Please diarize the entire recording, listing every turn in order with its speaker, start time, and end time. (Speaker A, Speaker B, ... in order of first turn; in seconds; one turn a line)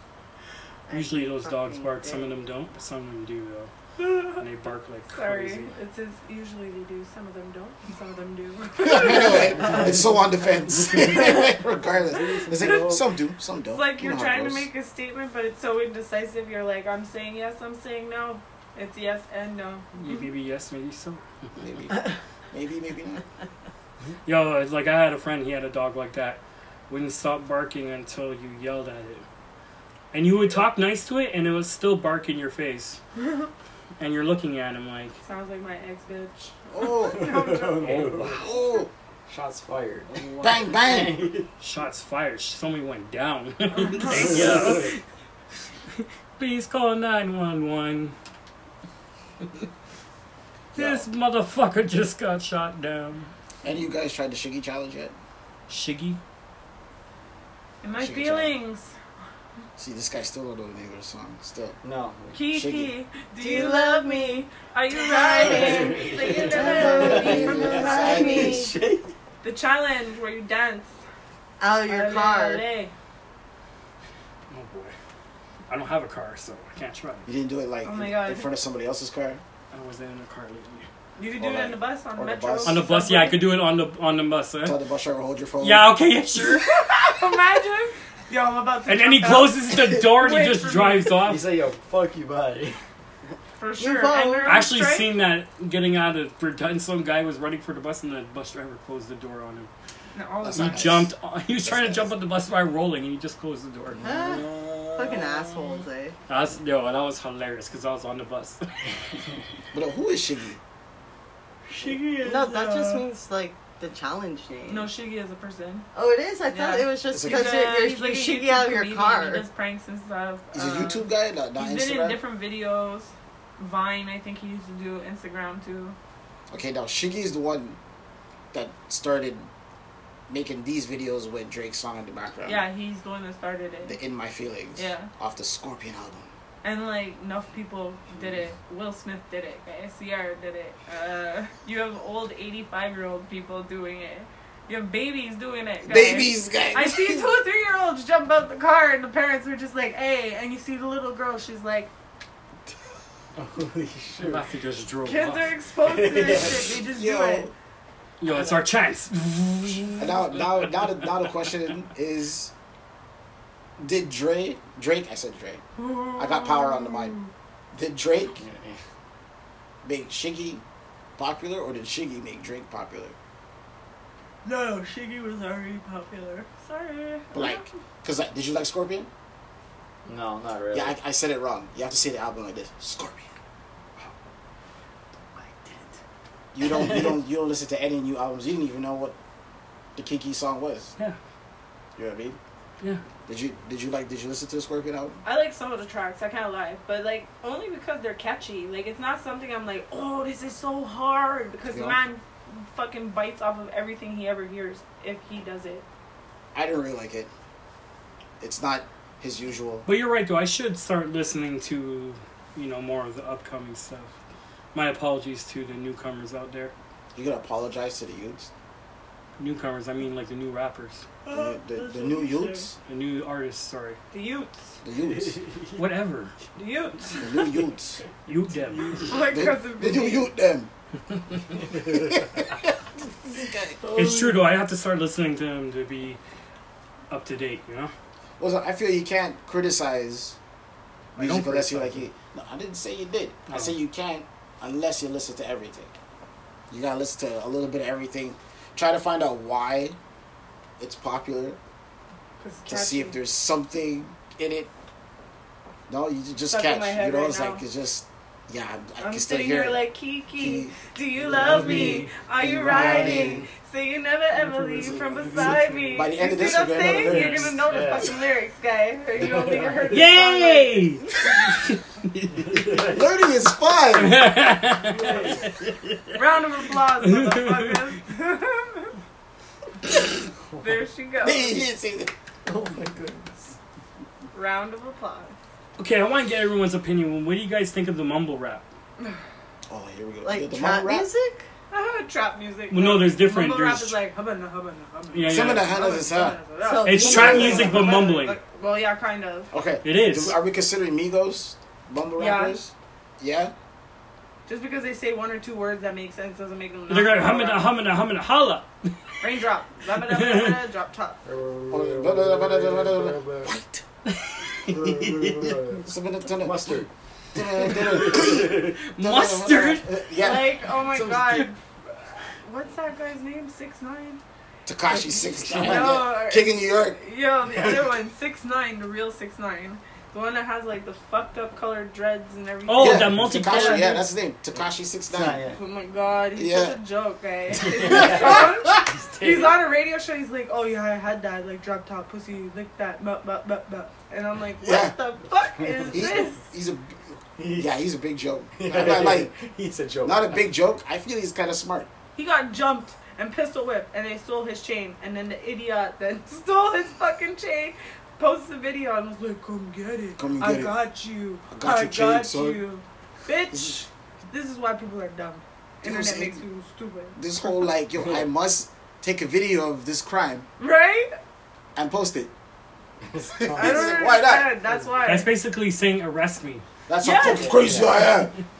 Speaker A: 0.9-2.4
Speaker B: 0.9-3.7
Speaker C: 4.0-4.4
Speaker B: 4.3-5.7
Speaker C: 5.1-9.7
Speaker D: 8.8-14.7
Speaker E: 9.5-10.1
Speaker E: 10.8-13.0
Speaker C: 12.5-12.9
Speaker C: 13.7-20.3
Speaker B: 19.9-21.2
Speaker D: 21.6-23.2
Speaker B: 24.3-29.2
Speaker B: 30.1-33.0
Speaker B: 34.0-35.2
Speaker C: 35.2-38.1
Speaker D: 36.7-37.5
Speaker E: 37.1-38.5
Speaker B: 37.8-38.4
Speaker D: 38.1-38.9
Speaker E: 39.3-41.5
Speaker B: 40.2-40.5
Speaker D: 40.4-41.3
Speaker B: 41.6-45.0
Speaker C: 43.8-44.3
Speaker E: 44.1-44.9
Speaker B: 46.0-48.1
Speaker D: 50.8-51.1
Speaker B: 50.8-53.3
Speaker D: 53.6-55.1
Speaker B: 55.7-56.2
Speaker C: 57.8-58.9
Speaker D: 58.0-58.5
Speaker D: 59.8-61.8
Speaker E: 61.8-62.4
Speaker C: 62.3-68.7
Speaker D: 62.5-62.9
Speaker A: 63.4-64.5
Speaker A: 65.1-68.7
Speaker E: 65.3-69.1
Speaker D: 66.9-68.7
Speaker C: 69.4-70.9
Speaker A: 71.6-72.7
Speaker C: 71.8-72.9
Speaker B: 74.5-74.9
Speaker B: 75.7-77.3
Speaker D: 77.3-79.4
Speaker C: 77.8-78.5
Speaker B: 79.7-80.9
Speaker C: 81.2-83.5
Speaker D: 81.4-82.8
Speaker B: 82.7-84.8
Speaker D: 84.7-85.9
Speaker B: 85.6-86.7
Speaker C: 86.4-91.2
Speaker B: 88.9-91.5
Speaker E: 91.2-92.8
Speaker C: 93.6-95.1
Speaker A: 93.8-94.6
Speaker B: 94.2-99.7
Speaker C: 100.1-101.0
Speaker D: 100.4-101.1
Speaker B: 100.5-104.1
Speaker D: 101.6-102.1
Speaker D: 104.0-105.5
Speaker A: 104.0-106.2
Speaker B: 106.3-108.7
Speaker D: 109.7-110.6
Speaker C: 111.7-113.1
Speaker A: 111.9-114.9
Speaker C: 114.7-115.9
Speaker A: 115.9-119.5
Speaker C: 116.5-126.0
Speaker D: 117.1-117.6
Speaker D: 120.5-122.2
Speaker D: 126.5-127.8
Speaker D: 128.5-129.5
Speaker D: 130.3-132.7
Speaker C: 132.4-134.0
Speaker D: 133.9-136.3
Speaker C: 134.8-135.1
Speaker C: 136.6-151.9
Speaker D: 145.8-147.3
Speaker E: 153.4-154.5
Speaker B: 154.2-155.5
Speaker C: 155.1-157.5
Speaker E: 155.8-156.7
Speaker D: 156.9-157.5
Speaker B: 158.2-160.7
Speaker D: 160.0-162.5
Speaker D: 163.8-165.6
Speaker C: 165.8-167.3
Speaker D: 166.2-167.2
Speaker D: 167.7-168.4
Speaker E: 168.3-168.8
Speaker D: 169.8-170.6
Speaker D: 171.2-173.2
Speaker C: 174.4-177.7
Speaker D: 177.3-179.1
Speaker E: 180.1-181.0
Speaker D: 180.7-183.3
Speaker D: 186.5-189.2
Speaker E: 186.6-187.2
Speaker D: 190.0-190.9
Speaker D: 192.0-192.4
Speaker D: 193.3-195.2
Speaker C: 195.2-205.8
Speaker D: 201.7-202.0
Speaker D: 206.5-207.3
Speaker D: 208.4-209.9
Speaker B: 209.9-214.1
Speaker B: 214.7-216.7
Speaker D: 217.1-218.5
Speaker B: 219.4-221.1
Speaker C: 221.2-222.7
Speaker D: 221.3-222.8
Speaker B: 222.9-224.0
Speaker C: 224.1-224.7
Speaker D: 224.8-225.4
Speaker E: 225.2-225.7
Speaker B: 225.8-226.3
Speaker C: 226.6-227.4
Speaker D: 227.2-228.0
Speaker B: 228.3-229.2
Speaker C: 229.1-230.3
Speaker D: 229.3-230.7
Speaker D: 231.7-233.8
Speaker E: 233.8-234.4
Speaker B: 233.9-236.2
Speaker B: 237.1-237.9
Speaker D: 238.4-240.4
Speaker B: 241.2-242.0
Speaker D: 241.2-245.9
Speaker B: 243.5-243.8
Speaker D: 246.7-250.0
Speaker D: 250.8-251.6
Speaker C: 252.4-253.2
Speaker D: 252.7-254.7
Speaker D: 255.9-260.8
Speaker C: 256.5-257.6
Speaker C: 259.0-271.1
Speaker E: 261.3-262.0
Speaker B: 261.3-262.1
Speaker D: 261.6-263.4
Speaker B: 262.7-263.5
Speaker E: 264.6-266.1
Speaker D: 265.9-267.9
Speaker E: 266.9-268.1
Speaker B: 267.1-267.5
Speaker E: 269.2-270.0
Speaker B: 269.9-272.7
Speaker E: 272.5-273.1
Speaker D: 272.7-274.3
Speaker B: 273.9-276.2
Speaker E: 274.9-275.6
Speaker C: 276.1-278.9
Speaker B: 277.0-277.8
Speaker C: 280.6-281.7
Speaker D: 281.2-282.1
Speaker E: 282.5-283.6
Speaker C: 284.3-285.3
Speaker B: 285.8-288.6
Speaker D: 289.7-291.1
Speaker A: 290.2-291.4
Speaker C: 291.7-299.5
Speaker B: 292.7-294.0
Speaker B: 295.1-295.7
Speaker D: 295.2-296.4
Speaker A: 296.6-298.0
Speaker B: 296.8-298.4
Speaker D: 297.1-297.8
Speaker D: 299.5-303.5
Speaker B: 299.8-300.4
Speaker C: 302.2-302.6
Speaker C: 304.5-307.7
Speaker B: 306.9-309.3
Speaker C: 309.2-311.2
Speaker B: 310.0-310.6
Speaker E: 311.2-313.6
Speaker D: 311.7-313.8
Speaker B: 314.1-315.6
Speaker E: 314.7-315.9
Speaker D: 315.9-316.8
Speaker E: 316.4-318.6
Speaker D: 317.4-320.5
Speaker B: 317.9-319.9
Speaker C: 320.2-324.2
Speaker B: 321.0-321.5
Speaker D: 324.7-327.0
Speaker E: 325.0-325.9
Speaker C: 325.6-334.0
Speaker B: 332.7-334.0
Speaker D: 332.8-335.4
Speaker E: 335.1-335.6
Speaker C: 335.6-346.4
Speaker D: 336.4-336.8
Speaker E: 337.6-339.4
Speaker D: 337.9-338.4
Speaker B: 339.2-339.5
Speaker D: 344.6-345.0
Speaker E: 345.6-345.9
Speaker D: 345.9-349.3
Speaker E: 347.4-347.7
Speaker E: 348.6-350.5
Speaker D: 350.0-351.9
Speaker C: 352.2-367.6
Speaker D: 360.2-360.8
Speaker D: 361.5-362.6
Speaker D: 365.8-366.4
Speaker D: 367.2-370.5
Speaker C: 370.6-371.1
Speaker D: 371.8-372.3
Speaker E: 373.1-374.1
Speaker D: 373.2-374.5
Speaker C: 373.5-375.3
Speaker B: 375.1-376.6
Speaker D: 376.9-378.3
Speaker C: 377.0-377.6
Speaker E: 377.3-378.1